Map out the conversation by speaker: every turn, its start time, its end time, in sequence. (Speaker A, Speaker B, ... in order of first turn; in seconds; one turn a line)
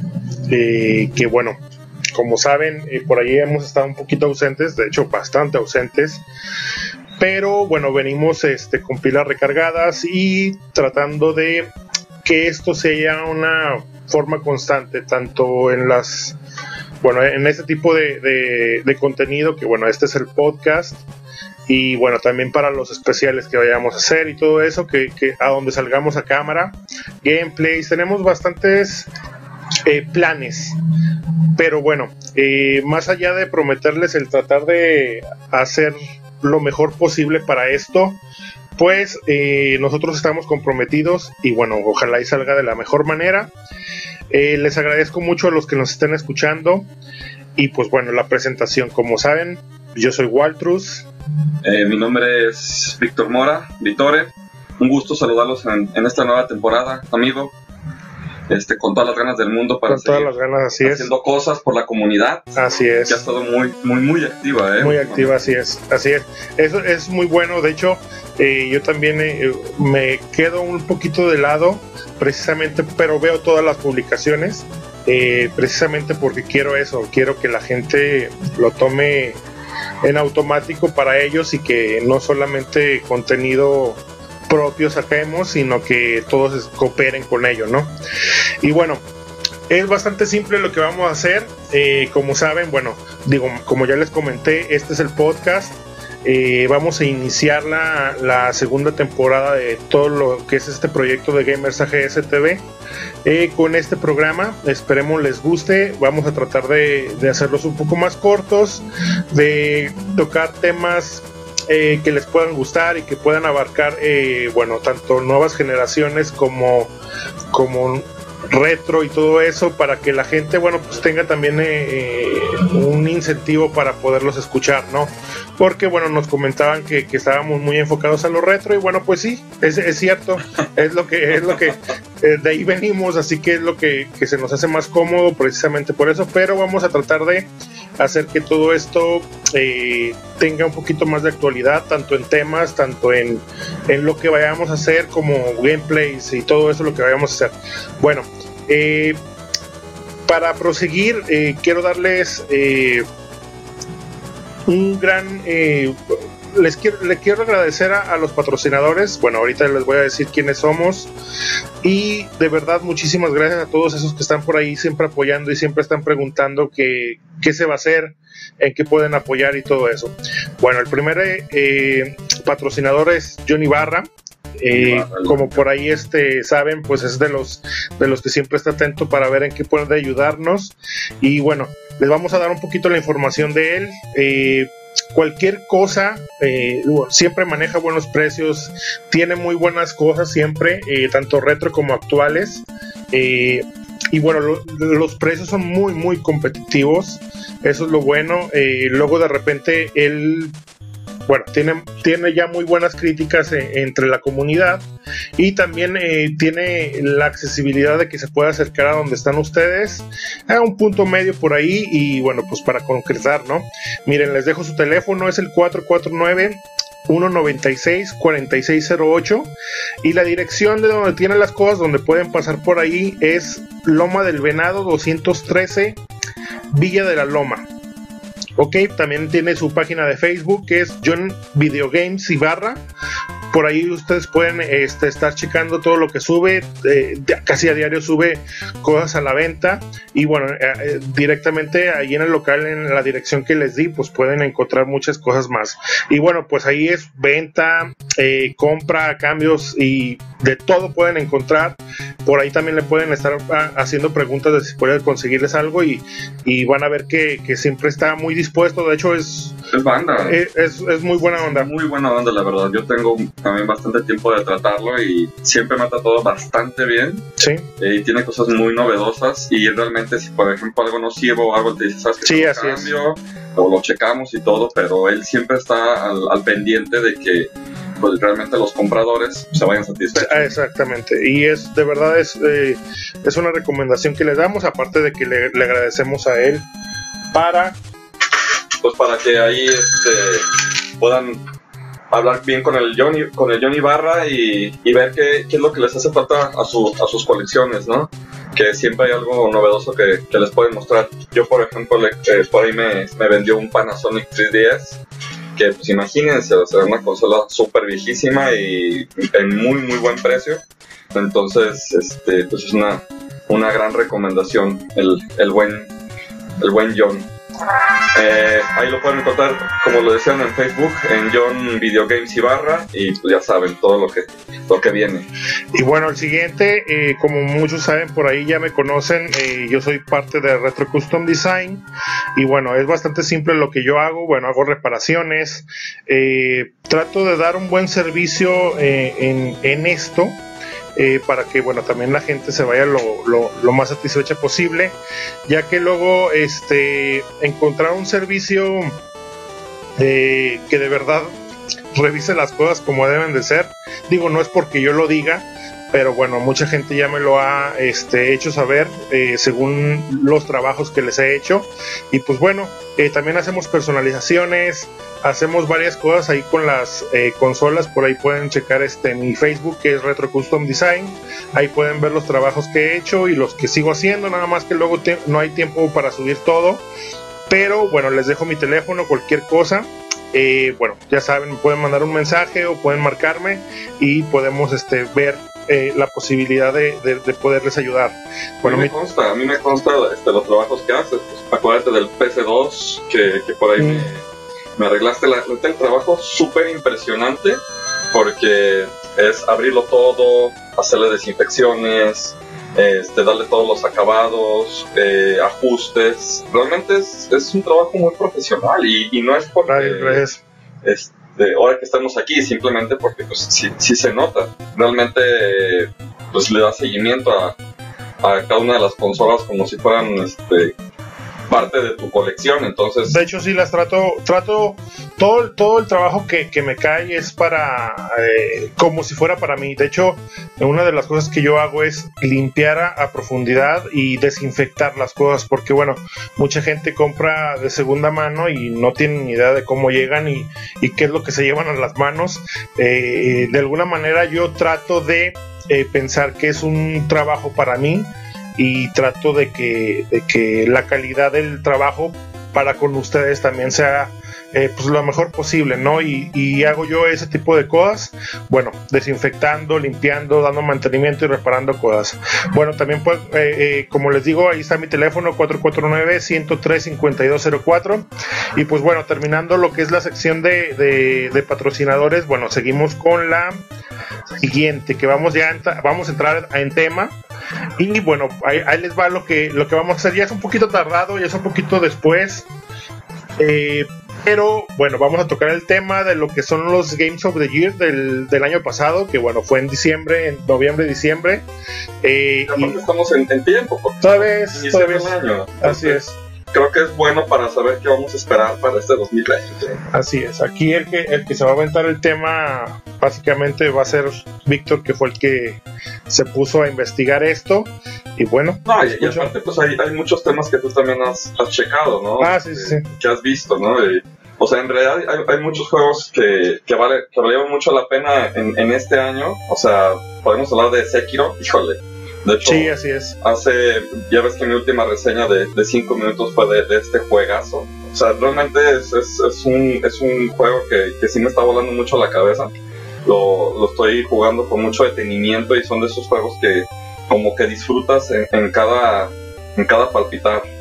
Speaker A: 0.4-1.6
Speaker A: 2.1-6.2
Speaker A: 7.2-11.7
Speaker A: 12.2-16.4
Speaker A: 17.0-21.0
Speaker A: 21.7-29.1
Speaker A: 29.9-30.8
Speaker A: 31.6-38.2
Speaker A: 38.8-43.5
Speaker A: 44.3-46.9
Speaker A: 47.6-51.1
Speaker B: 51.6-57.5
Speaker B: 58.5-65.3
Speaker A: 59.9-61.1
Speaker A: 62.5-63.2
Speaker A: 64.8-79.4
Speaker A: 80.0-87.9
Speaker A: 88.6-89.0
Speaker A: 89.7-102.7
Speaker A: 103.2-116.9
Speaker A: 117.5-149.2
Speaker A: 150.2-153.1
Speaker A: 154.7-161.1
Speaker A: 161.8-200.5
Speaker B: 174.7-175.6
Speaker A: 201.3-226.0
Speaker A: 226.7-227.7
Speaker A: 228.6-232.8
Speaker A: 233.5-259.6
Speaker B: 259.7-260.4
Speaker A: 260.2-261.7
Speaker B: 261.3-267.2
Speaker A: 267.4-267.7
Speaker B: 267.8-280.5
Speaker A: 272.2-272.9
Speaker A: 280.1-286.6
Speaker A: 287.3-287.8
Speaker B: 288.8-291.4
Speaker B: 292.1-305.0
Speaker B: 305.6-310.6
Speaker B: 311.1-315.9
Speaker B: 316.6-317.3
Speaker B: 318.1-325.3
Speaker A: 325.7-331.8
Speaker A: 332.4-340.4
Speaker A: 340.9-349.0
Speaker A: 350.0-351.3
Speaker A: 351.9-376.8
Speaker A: 377.5-388.9
Speaker B: 388.6-394.2
Speaker A: 393.8-394.1
Speaker B: 394.8-397.6
Speaker B: 398.1-410.2
Speaker A: 409.7-410.4
Speaker B: 410.8-417.6
Speaker B: 418.2-420.7
Speaker B: 421.5-423.2
Speaker A: 423.1-473.6
Speaker A: 474.4-477.1
Speaker A: 477.8-482.5
Speaker A: 483.4-491.4
Speaker A: 492.0-492.8
Speaker B: 492.4-496.0
Speaker A: 494.0-496.2
Speaker B: 496.5-499.8
Speaker A: 499.9-509.3
Speaker B: 508.6-532.5
Speaker A: 512.2-512.9
Speaker A: 522.4-523.2
Speaker B: 533.0-540.4